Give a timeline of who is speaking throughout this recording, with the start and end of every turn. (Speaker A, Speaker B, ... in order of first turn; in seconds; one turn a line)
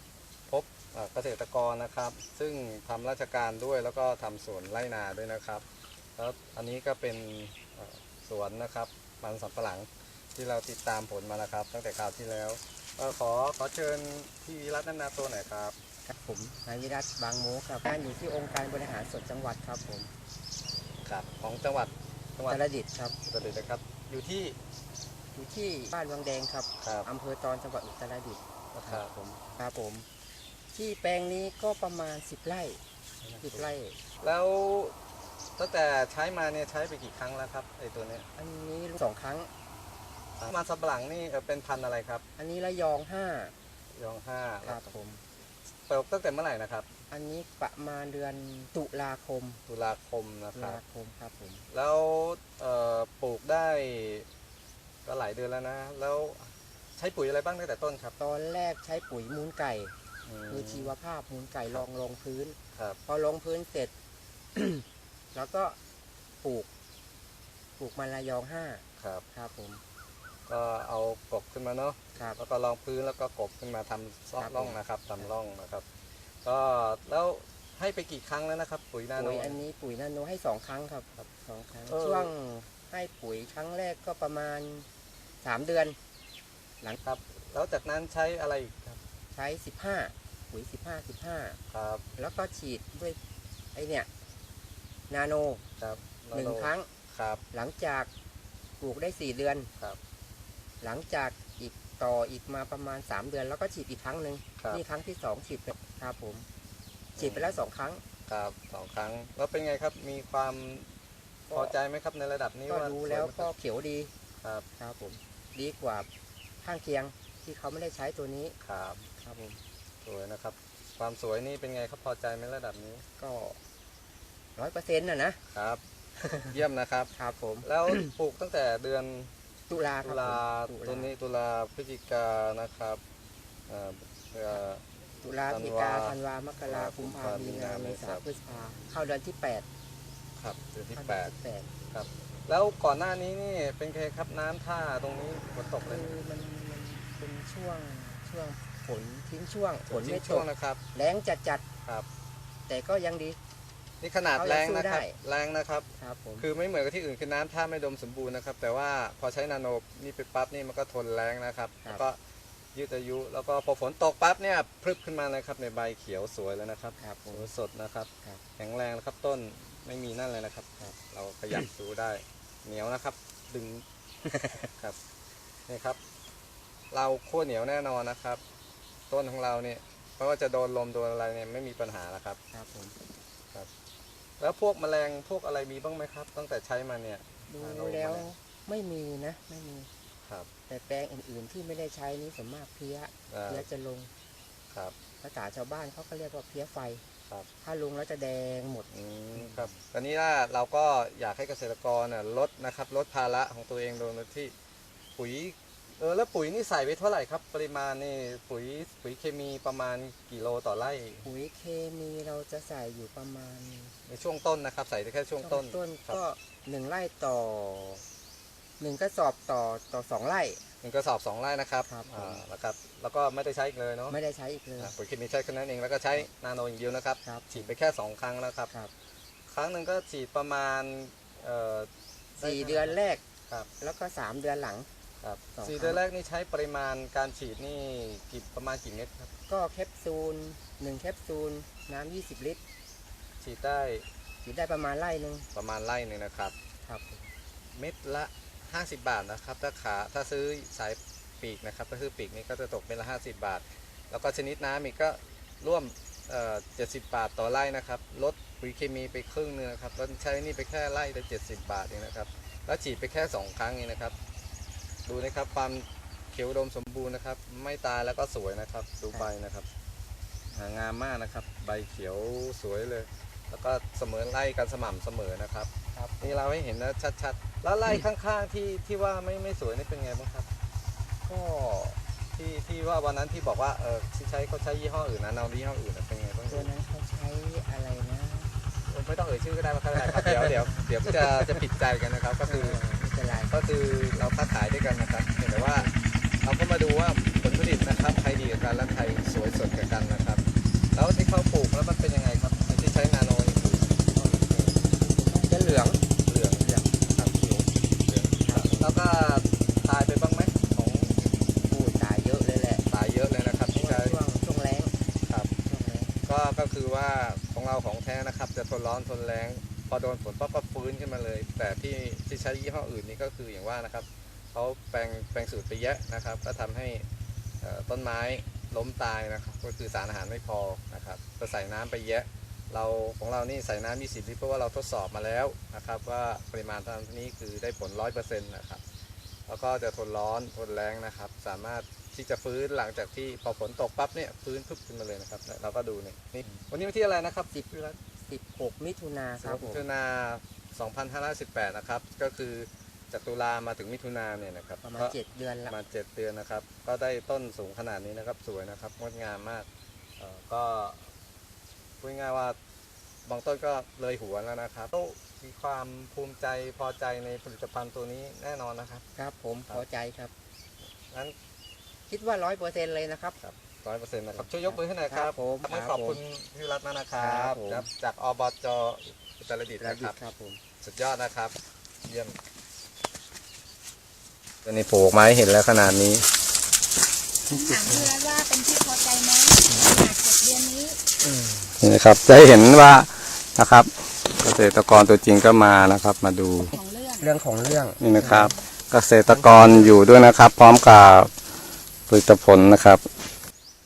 Speaker A: 0.5-5.6
Speaker A: 6.2-15.8
Speaker B: 16.0-20.1
Speaker A: 21.0-22.6
Speaker B: 22.4-23.2
Speaker A: 23.2-24.6
Speaker B: 25.3-30.1
Speaker A: 26.8-27.1
Speaker A: 28.7-29.1
Speaker B: 30.7-32.8
Speaker A: 33.2-35.0
Speaker B: 33.4-34.0
Speaker A: 35.6-38.3
Speaker B: 38.4-39.5
Speaker A: 40.4-42.2
Speaker B: 42.4-43.5
Speaker A: 43.9-44.9
Speaker B: 44.6-45.2
Speaker A: 45.9-46.9
Speaker B: 47.1-49.6
Speaker A: 49.7-50.8
Speaker B: 50.5-51.6
Speaker A: 51.7-54.3
Speaker A: 55.0-58.1
Speaker B: 58.2-59.9
Speaker A: 60.2-60.9
Speaker B: 60.5-63.9
Speaker B: 64.5-65.8
Speaker B: 66.4-66.7
Speaker B: 67.8-69.8
Speaker A: 69.0-69.2
Speaker A: 70.5-75.8
Speaker B: 74.4-75.3
Speaker A: 76.4-79.6
Speaker B: 79.2-84.9
Speaker A: 81.9-82.3
Speaker B: 85.4-86.0
Speaker A: 87.0-89.0
Speaker B: 89.3-91.6
Speaker A: 91.7-92.0
Speaker B: 92.2-93.2
Speaker B: 93.7-94.1
Speaker B: 95.1-95.6
Speaker A: 95.8-97.4
Speaker B: 96.3-96.9
Speaker B: 97.5-98.1
Speaker B: 98.8-99.7
Speaker B: 100.8-106.5
Speaker A: 107.2-107.6
Speaker B: 107.2-108.0
Speaker A: 108.3-110.9
Speaker B: 111.5-111.8
Speaker A: 111.5-113.5
Speaker B: 112.7-114.1
Speaker B: 114.8-116.1
Speaker B: 116.6-118.5
Speaker A: 118.6-119.1
Speaker B: 119.2-119.6
Speaker A: 120.0-123.0
Speaker B: 123.2-123.6
Speaker B: 124.5-125.4
Speaker A: 125.5-125.8
Speaker B: 126.2-126.5
Speaker A: 126.5-127.1
Speaker B: 127.1-128.1
Speaker A: 127.6-129.3
Speaker B: 129.7-131.1
Speaker A: 130.0-133.0
Speaker A: 133.7-134.8
Speaker B: 135.2-139.7
Speaker A: 135.5-138.2
Speaker A: 140.4-141.3
Speaker B: 140.9-141.7
Speaker A: 141.9-146.1
Speaker B: 145.8-151.6
Speaker A: 149.9-150.8
Speaker B: 152.7-153.4
Speaker A: 154.0-162.2
Speaker B: 154.3-155.2
Speaker B: 156.0-156.5
Speaker A: 162.7-173.8
Speaker B: 167.0-167.5
Speaker B: 174.2-174.7
Speaker A: 175.7-176.0
Speaker A: 176.9-178.4
Speaker A: 179.1-182.4
Speaker B: 182.5-183.0
Speaker A: 184.4-188.2
Speaker B: 187.5-189.9
Speaker B: 190.7-194.1
Speaker A: 193.3-193.7
Speaker B: 195.2-197.0
Speaker B: 197.6-199.7
Speaker A: 198.9-204.5
Speaker A: 205.2-211.3
Speaker B: 211.2-213.9
Speaker A: 214.1-216.2
Speaker B: 215.4-218.0
Speaker B: 218.8-220.6
Speaker A: 220.8-224.2
Speaker B: 221.8-222.4
Speaker B: 224.1-224.9
Speaker A: 224.8-228.7
Speaker B: 227.2-227.7
Speaker A: 229.5-233.7
Speaker B: 232.4-233.2
Speaker B: 233.8-234.9
Speaker A: 235.2-239.3
Speaker B: 235.5-236.0
Speaker B: 239.5-242.6
Speaker A: 243.4-244.1
Speaker B: 244.4-245.5
Speaker A: 245.5-246.5
Speaker B: 246.8-247.3
Speaker A: 247.7-264.1
Speaker A: 265.1-269.7
Speaker A: 270.5-280.5
Speaker B: 275.9-276.4
Speaker B: 281.2-282.0
Speaker A: 282.3-286.7
Speaker B: 286.5-288.5
Speaker A: 288.9-292.8
Speaker B: 290.2-290.8
Speaker B: 292.4-293.5
Speaker A: 293.5-295.9
Speaker B: 295.5-295.9
Speaker A: 296.4-300.4
Speaker A: 300.9-304.0
Speaker B: 304.1-306.0
Speaker A: 306.2-311.2
Speaker B: 306.6-307.1
Speaker B: 308.4-308.9
Speaker B: 311.6-312.8
Speaker A: 312.9-314.2
Speaker B: 313.7-314.9
Speaker B: 315.6-316.1
Speaker A: 316.2-327.1
Speaker A: 327.6-338.8
Speaker A: 339.5-347.7
Speaker B: 347.5-349.9
Speaker A: 349.4-359.7
Speaker B: 354.8-355.8
Speaker A: 360.2-361.1
Speaker A: 362.0-362.6
Speaker A: 363.2-369.0
Speaker B: 369.1-370.3
Speaker A: 371.1-371.3
Speaker B: 372.1-373.4
Speaker A: 373.4-380.1
Speaker B: 374.3-376.2
Speaker B: 377.2-377.9
Speaker B: 379.8-380.6
Speaker A: 380.8-382.4
Speaker A: 384.6-386.2
Speaker C: 387.5-391.0
Speaker A: 391.8-396.7
Speaker C: 396.6-397.2
Speaker B: 397.2-398.6
Speaker A: 398.0-401.3
Speaker B: 399.3-400.0
Speaker A: 402.1-403.1